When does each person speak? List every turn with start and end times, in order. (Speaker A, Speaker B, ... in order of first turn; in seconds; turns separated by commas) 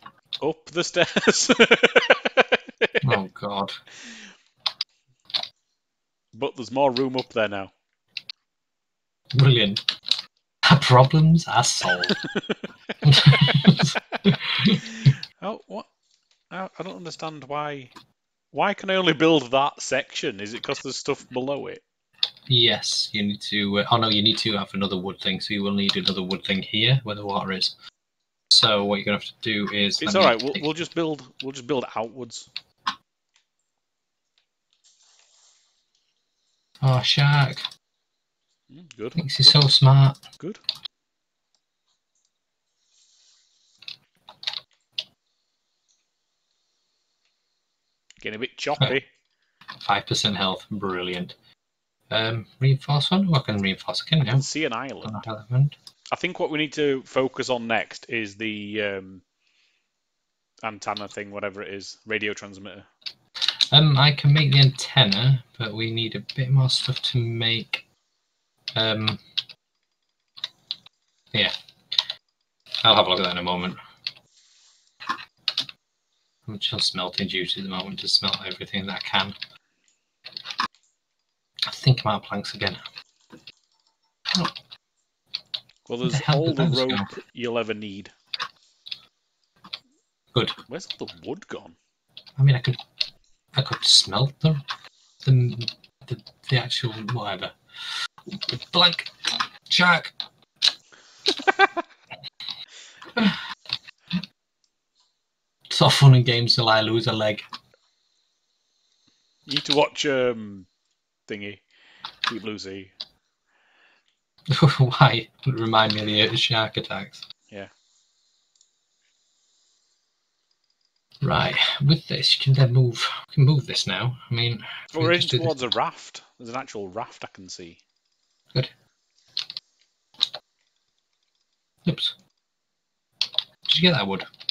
Speaker A: 0.4-3.0, Speaker B: 3.0-3.7, Speaker A: 6.3-7.7, Speaker B: 9.3-9.8, Speaker B: 10.7-12.2, Speaker A: 12.3-12.7, Speaker B: 13.0-14.8, Speaker A: 13.2-14.2, Speaker A: 14.7-15.9, Speaker A: 16.5-17.9, Speaker A: 18.5-21.8, Speaker B: 22.5-27.7, Speaker B: 28.5-30.7, Speaker A: 30.0-32.5, Speaker B: 36.8-37.6, Speaker A: 38.7-39.6, Speaker B: 39.1-40.2, Speaker A: 48.2-49.1, Speaker B: 49.8-51.3, Speaker B: 52.1-54.5, Speaker A: 54.3-55.2, Speaker B: 55.0-55.7, Speaker A: 56.1-59.2, Speaker A: 60.6-62.9, Speaker B: 63.7-67.8, Speaker B: 68.7-69.2, Speaker B: 72.8-73.8, Speaker B: 76.5-79.3, Speaker B: 81.7-82.8, Speaker A: 85.9-88.1, Speaker B: 86.0-87.1, Speaker A: 90.7-91.8, Speaker B: 92.4-92.8, Speaker B: 93.5-94.6, Speaker B: 95.2-97.5, Speaker B: 98.2-100.1, Speaker A: 101.3-101.8, Speaker B: 103.1-103.4, Speaker B: 105.7-107.4, Speaker A: 109.5-110.7, Speaker A: 111.3-111.6, Speaker A: 112.3-112.9, Speaker B: 114.5-117.2, Speaker B: 121.2-125.7, Speaker A: 124.9-127.8, Speaker B: 131.8-132.1, Speaker B: 133.7-134.3